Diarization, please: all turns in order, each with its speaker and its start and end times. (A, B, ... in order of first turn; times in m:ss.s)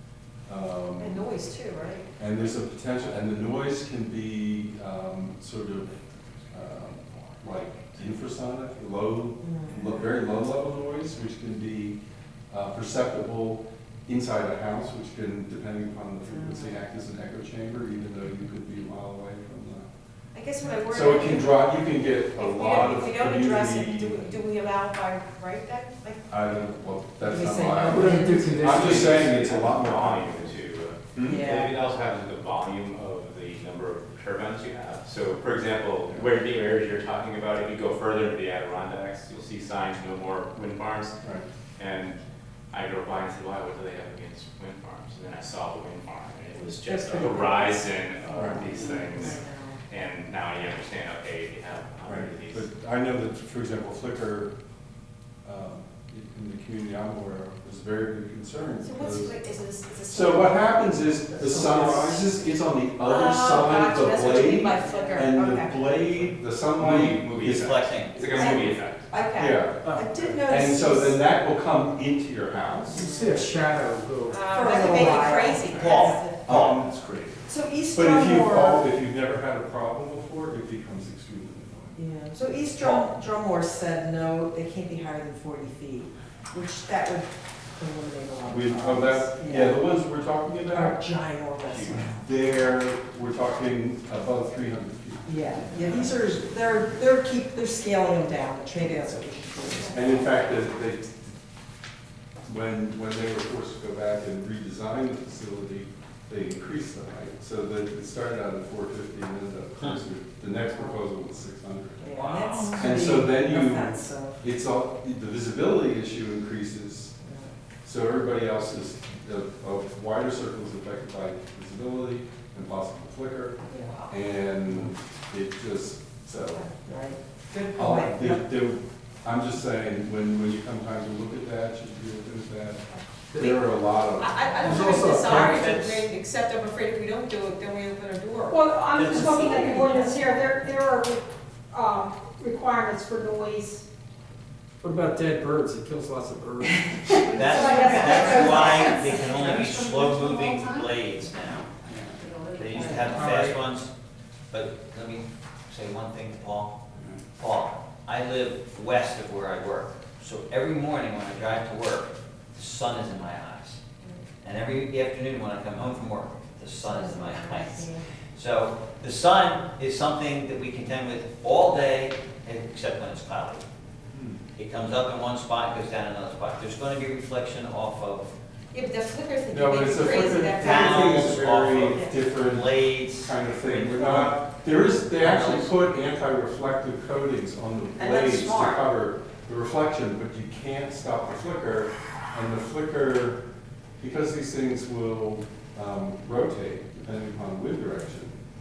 0:00.5-0:01.3 A
0:01.0-0:02.1 B
0:02.2-0:06.0 A
0:06.5-0:12.0 A
0:09.4-0:10.1 C
0:12.5-0:19.9 A
0:16.3-0:16.8 C
0:20.3-0:26.2 B
0:20.9-0:24.4 A
0:26.3-0:30.6 A
0:27.2-0:29.2 C
0:27.9-0:29.3 D
0:28.7-0:41.2 E
0:31.1-0:31.5 A
0:31.2-0:31.8 C
0:41.8-0:42.2 E
0:42.7-0:52.7 E
0:46.9-0:49.8 C
0:48.4-0:48.7 A
0:52.1-0:54.5 A
0:55.4-0:59.4 A
0:58.8-1:02.4 B
1:00.1-1:08.6 A
1:01.4-1:02.1 C
1:03.0-1:06.2 B
1:04.8-1:05.2 C
1:06.8-1:09.1 E
1:07.4-1:08.3 F
1:09.1-1:09.6 B
1:09.3-1:11.2 C
1:09.4-1:09.9 A
1:09.8-1:10.4 D
1:10.4-1:13.1 A
1:12.9-1:15.2 D
1:13.0-1:13.4 C
1:14.3-1:16.3 B
1:14.5-1:16.4 C
1:15.7-1:17.3 E
1:15.7-1:16.5 F
1:16.4-1:17.0 A
1:17.5-1:18.9 C
1:17.9-1:22.0 A
1:22.0-1:29.9 C
1:28.5-1:31.0 A
1:30.7-1:32.2 C
1:31.8-1:36.4 A
1:35.2-1:40.4 C
1:39.9-1:41.3 A
1:42.5-1:52.2 A
1:50.5-1:51.0 C
1:52.0-1:54.4 C
1:52.2-1:52.9 F
1:52.8-1:57.2 A
1:57.2-1:57.5 C
1:57.8-2:06.6 A
2:03.7-2:04.0 C
2:03.7-2:04.1 B
2:06.5-2:08.4 C
2:07.7-2:15.5 A
2:14.1-2:18.6 B
2:14.6-2:15.8 D
2:15.2-2:16.1 F
2:18.5-2:23.9 G
2:18.9-2:19.9 F
2:19.9-2:20.6 B
2:24.8-2:27.4 D
2:27.3-2:31.8 F
2:27.3-2:30.9 B
2:27.4-2:29.2 G
2:32.2-2:33.3 B
2:32.5-2:33.9 F
2:32.8-2:33.1 C
2:33.0-2:33.6 D
2:34.5-2:36.8 F
2:37.4-2:43.8 F
2:44.4-2:53.6 F
2:46.8-2:48.0 C
2:54.1-2:54.4 A
2:54.6-2:58.3 F
2:58.7-3:01.4 B
2:59.5-3:13.4 A
3:00.5-3:04.5 F
3:05.2-3:05.7 F
3:08.0-3:08.8 F
3:14.0-3:18.4 A